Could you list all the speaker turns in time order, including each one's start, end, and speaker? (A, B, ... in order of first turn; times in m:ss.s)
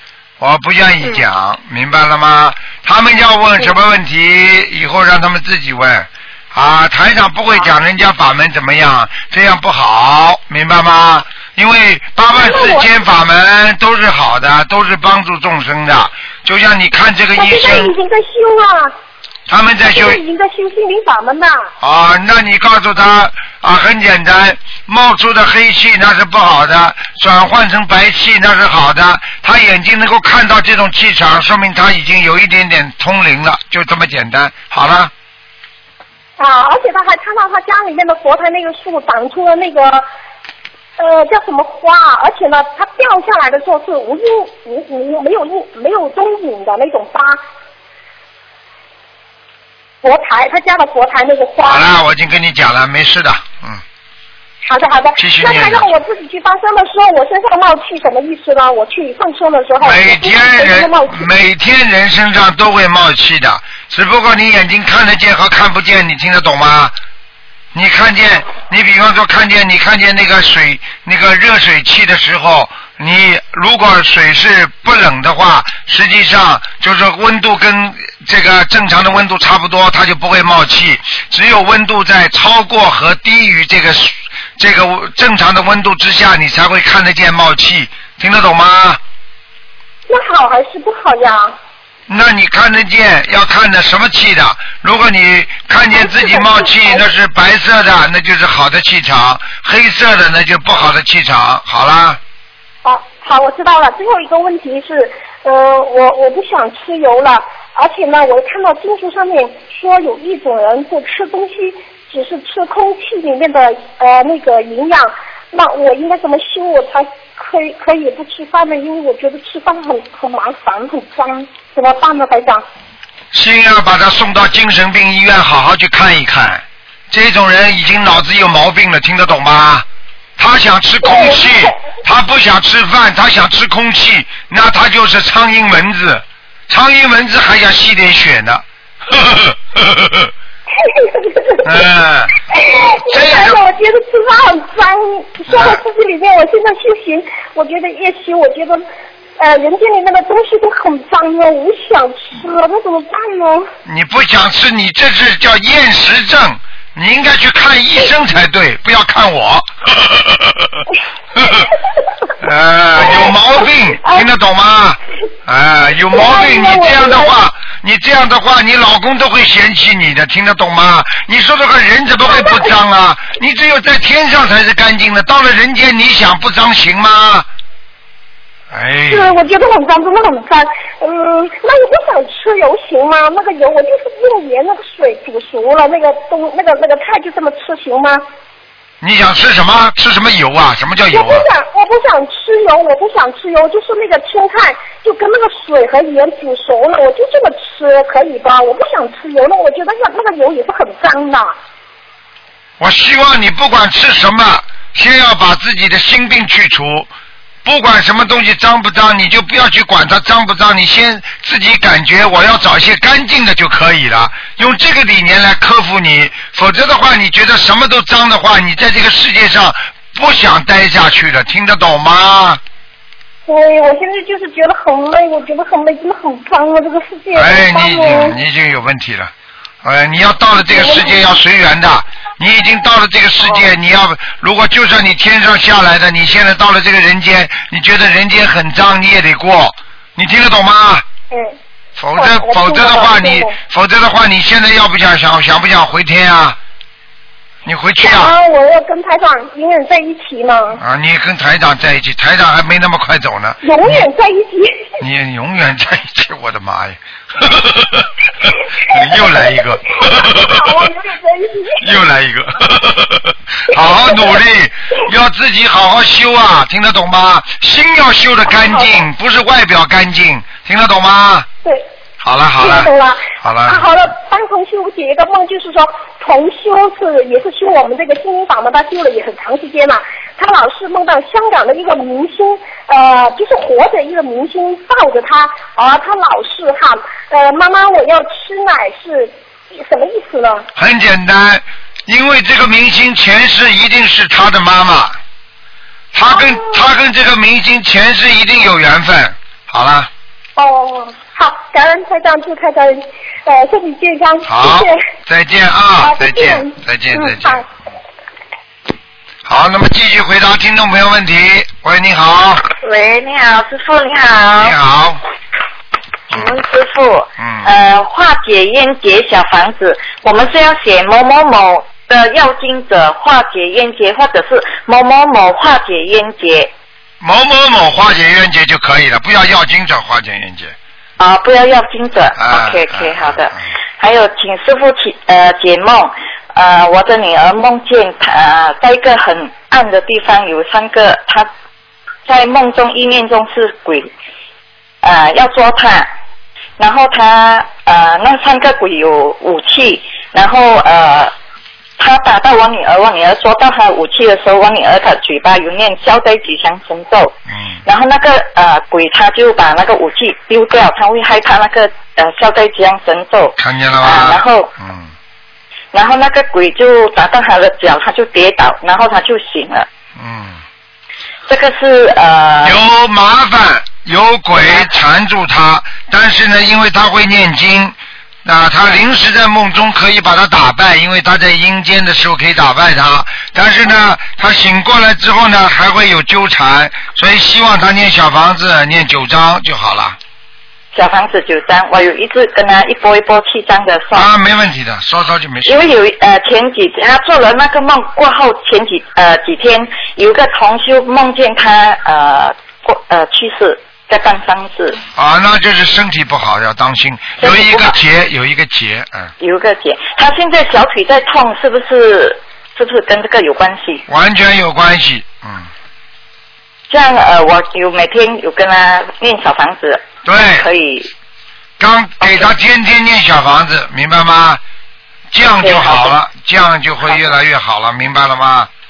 0:00.4-0:18.0 A
0:12.3-0:12.9 B
0:17.4-0:19.0 B
0:19.5-0:20.2 A
0:19.9-0:21.7 B
0:21.8-0:35.1 A
0:36.4-0:40.1 B
0:41.0-0:47.4 B
0:50.0-0:51.9 B
0:51.6-0:53.8 A
0:54.6-1:01.3 B
0:55.2-0:55.9 A
0:59.8-1:07.0 A
1:07.7-1:29.0 A
1:30.1-1:31.6 B
1:32.1-1:42.2 A
1:35.9-1:37.0 B
1:42.8-2:02.6 B
2:03.3-2:09.9 A
2:10.4-2:20.3 A
2:11.0-2:11.8 B
2:20.8-2:21.8 B
2:21.6-2:22.4 A
2:22.5-2:28.8 B
2:23.1-2:23.6 A
2:25.5-2:25.8 A
2:29.4-2:33.7 B
2:33.9-2:40.8 A
2:41.4-2:41.7 A
2:42.4-2:57.5 A
2:43.0-2:43.3 B
2:46.1-2:47.3 B
2:52.3-2:52.7 B
2:58.7-2:59.4 A
2:59.1-3:08.2 B
3:09.0-3:11.5 A
3:11.1-3:21.5 B
3:22.8-3:27.1 A
3:27.6-3:42.6 A
3:43.5-3:48.4 B
3:47.3-3:49.3 A
3:49.8-4:01.0 A
3:50.6-3:51.2 B
4:01.3-4:01.6 B
4:02.0-4:06.6 A
4:02.2-4:03.6 B
4:07.6-4:08.4 A
4:08.0-4:10.8 B
4:10.8-4:14.0 A
4:13.6-4:15.0 B
4:15.0-4:18.1 A
4:18.9-4:20.8 A
4:19.0-4:21.9 B
4:21.8-4:31.5 A
4:23.7-4:24.4 B
4:28.5-4:29.0 B
4:32.2-4:32.9 A
4:32.6-4:50.7 B
4:33.4-4:33.9 A
4:50.8-4:55.2 A
4:56.1-5:00.1 A
4:56.3-4:56.9 B
5:00.6-5:05.0 B
5:04.4-5:07.6 A
5:06.0-5:07.6 B
5:09.4-5:12.6 A
5:12.8-5:14.8 C
5:14.6-5:15.2 A
5:16.3-5:16.6 A
5:16.3-5:26.7 C
5:17.4-5:17.7 A
5:27.2-5:30.8 A
5:31.2-5:41.5 C
5:32.4-5:33.5 A
5:42.3-5:44.1 C
5:45.0-5:46.1 C
5:46.8-5:51.3 C
5:52.0-6:04.7 C
5:57.5-5:57.8 A
6:03.6-6:05.1 A
6:05.9-6:09.9 C
6:10.2-6:10.6 A
6:11.5-6:12.8 C
6:12.6-6:30.2 A
6:30.9-6:34.3 C
6:34.1-6:35.9 A
6:35.7-6:45.0 C
6:45.2-6:49.3 A
6:47.4-6:48.0 C
6:49.4-6:54.0 C
6:54.1-6:55.7 A
6:56.9-7:01.1 C
7:00.2-7:00.7 A
7:01.8-7:04.6 A
7:02.2-7:02.5 C
7:05.3-7:08.7 A
7:05.6-7:06.2 C
7:07.1-7:07.4 C